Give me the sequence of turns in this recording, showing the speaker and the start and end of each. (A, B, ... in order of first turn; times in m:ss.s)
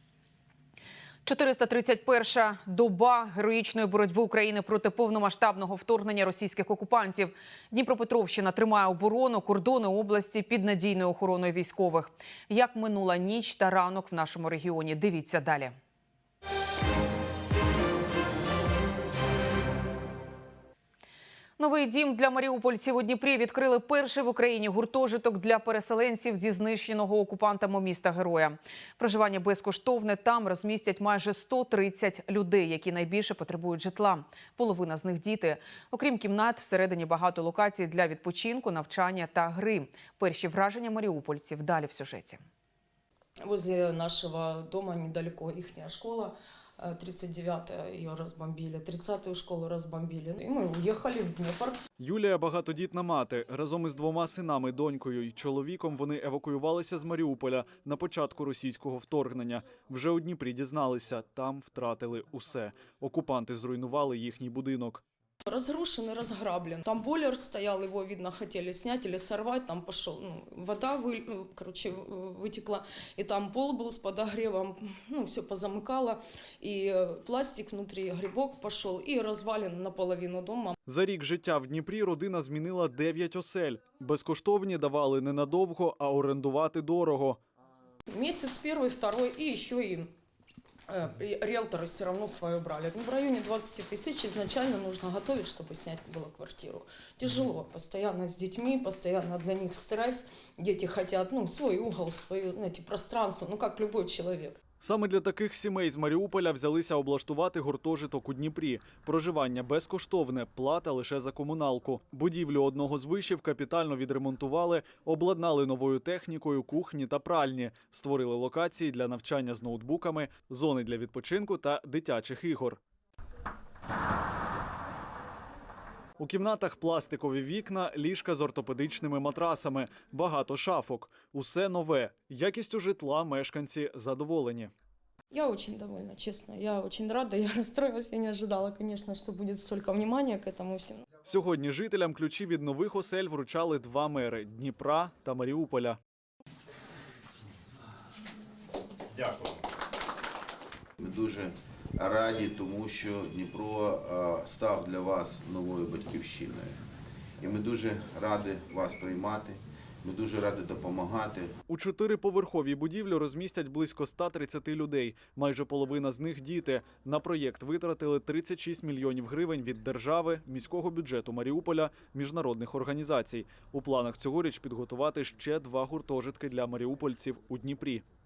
0:01.2-0:15.8 A
0:21.6-0:42.4 A
0:43.4-0:51.8 B
0:52.0-1:05.0 C
1:05.4-1:20.8 B
1:20.8-1:27.4 C
1:28.1-1:30.1 B
1:30.9-1:44.6 B
1:44.8-2:02.8 C
2:06.2-2:14.7 C
2:15.3-2:21.0 B
2:21.2-2:26.0 C
2:29.2-2:29.5 D
2:31.0-2:36.8 D
2:37.4-2:41.6 D
2:41.7-2:58.0 C